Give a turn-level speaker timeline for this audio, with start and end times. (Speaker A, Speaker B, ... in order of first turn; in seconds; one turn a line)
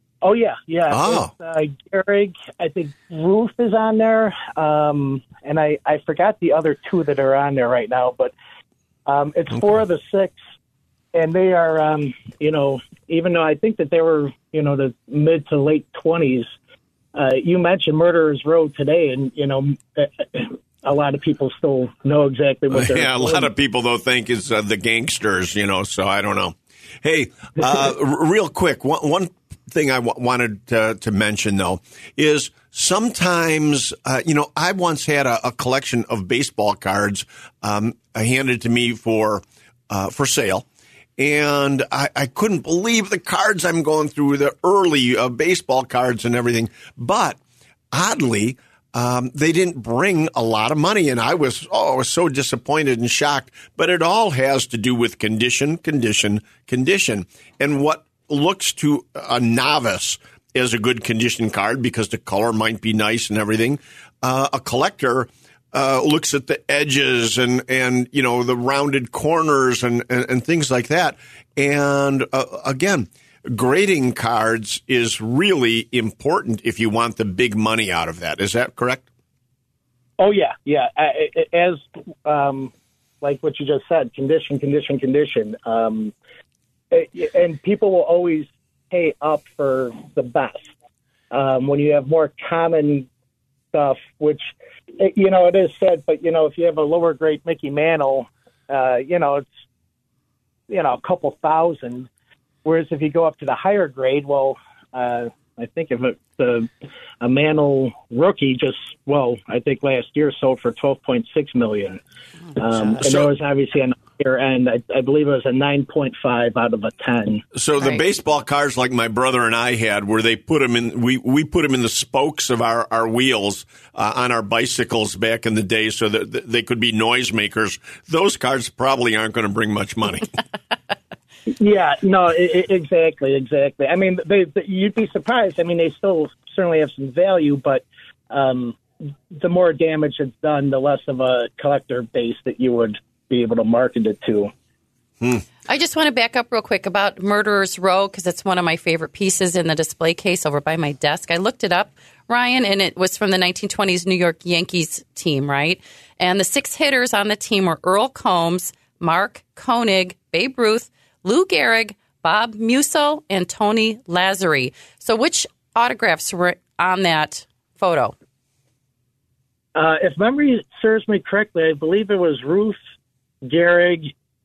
Speaker A: 0.2-8.3
Speaker B: 0.9-1.3
Speaker A: 9.1-10.3
Speaker A: 11.1-16.5
Speaker A: 17.1-23.5
Speaker B: 22.7-40.6
Speaker B: 41.2-47.4
Speaker B: 47.9-79.0
Speaker A: 80.2-86.1
Speaker A: 86.9-90.7
Speaker A: 91.3-93.1
Speaker A: 93.7-99.5
Speaker A: 100.7-102.1
Speaker A: 102.6-106.7
Speaker A: 107.2-112.0
Speaker A: 112.5-117.4
Speaker B: 113.0-113.3
Speaker B: 117.5-130.3
Speaker A: 131.5-144.5
Speaker C: 145.7-168.1
Speaker A: 169.7-172.8
Speaker A: 173.4-174.1